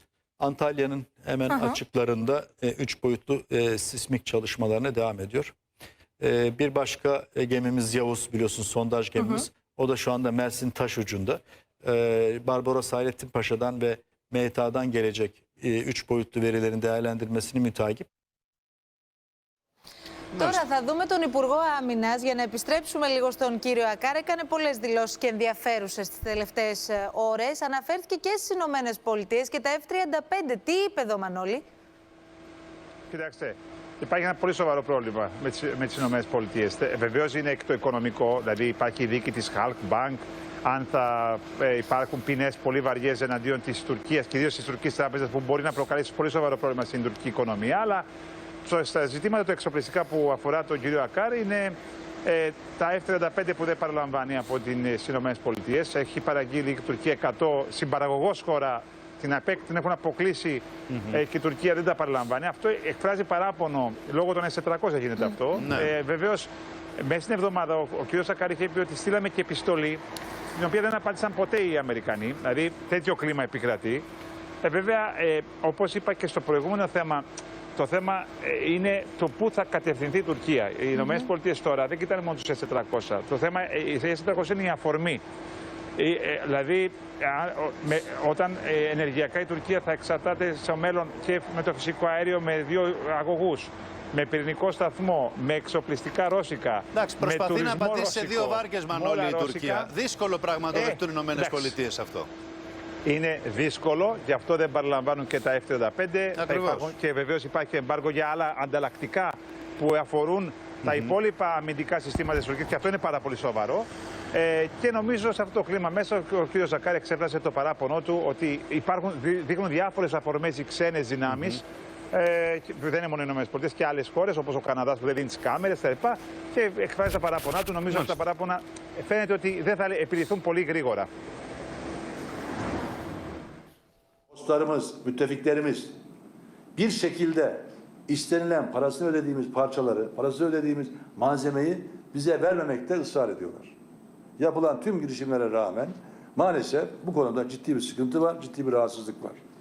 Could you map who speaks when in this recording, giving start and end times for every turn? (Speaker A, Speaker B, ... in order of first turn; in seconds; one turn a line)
Speaker A: 0.4-5.5
Speaker A: 6.2-18.1
Speaker B: 20.3-20.6
Speaker C: 20.3-31.6
Speaker D: 33.1-48.0
Speaker D: 48.6-70.0
Speaker B: 60.9-61.2
Speaker B: 65.5-65.9
Speaker D: 70.5-74.0
Speaker D: 74.6-77.2
Speaker D: 77.8-85.2
Speaker C: 81.0-81.3
Speaker D: 86.0-99.9
Speaker B: 96.9-102.3
Speaker D: 100.7-101.8
Speaker D: 103.0-131.1
Speaker B: 106.4-106.9
Speaker B: 110.8-111.2
Speaker B: 121.3-121.6
Speaker E: 134.3-135.9
Speaker E: 136.8-143.7
Speaker E: 144.4-149.4